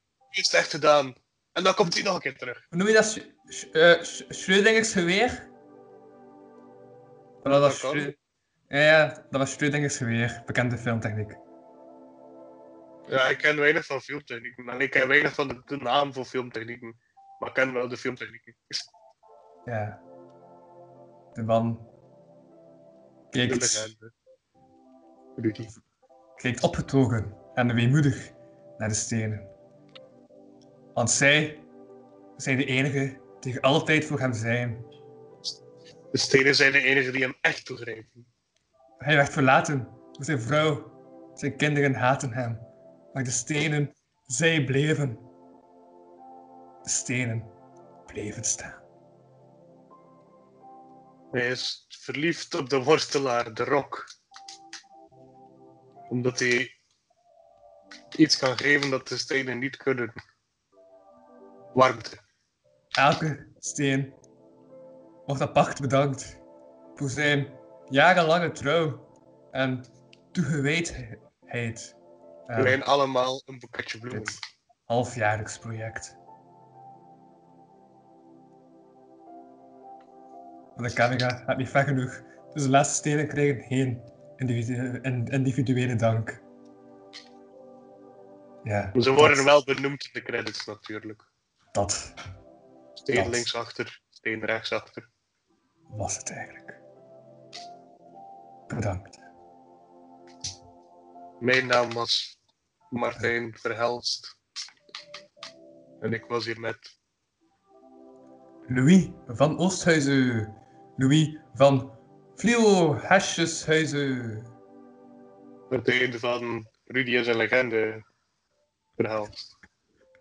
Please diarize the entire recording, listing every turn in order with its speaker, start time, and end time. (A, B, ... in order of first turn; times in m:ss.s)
0:00.3-0:02.6 A
0:02.7-0:05.5 B
0:07.4-0:08.2 B
0:07.6-0:08.1 A
0:08.7-0:11.4 B
0:13.1-0:18.8 A
0:19.6-0:20.0 B
0:21.3-0:21.9 B
0:23.3-0:23.9 B
0:23.5-0:24.1 A
0:25.4-0:25.7 A
0:26.4-0:29.5 B
0:30.9-0:31.6 B
0:32.4-0:34.8 B
0:36.1-0:38.3 A
0:39.0-0:42.6 B
0:43.1-0:45.2 B
0:46.8-0:47.5 B
0:48.1-0:48.8 B
0:51.3-0:54.1 A
0:56.1-0:56.7 A
0:58.2-1:00.2 A
1:01.7-1:02.2 A
1:03.0-1:04.2 B
1:05.3-1:06.4 B
1:07.0-1:12.0 B
1:12.5-1:12.8 B
1:12.6-1:14.4 A
1:14.1-1:16.2 B
1:20.8-1:26.4 B
1:28.6-1:29.5 B
1:28.9-1:31.2 A
1:31.7-1:32.1 B
1:33.0-1:35.1 A
1:33.1-1:33.4 B
1:35.9-1:36.8 B
1:38.7-1:39.2 B
1:41.4-1:42.4 A
1:42.9-1:44.3 A
1:46.0-1:46.9 A
1:48.7-1:54.5 B
1:55.7-1:58.0 A
1:59.0-1:59.5 A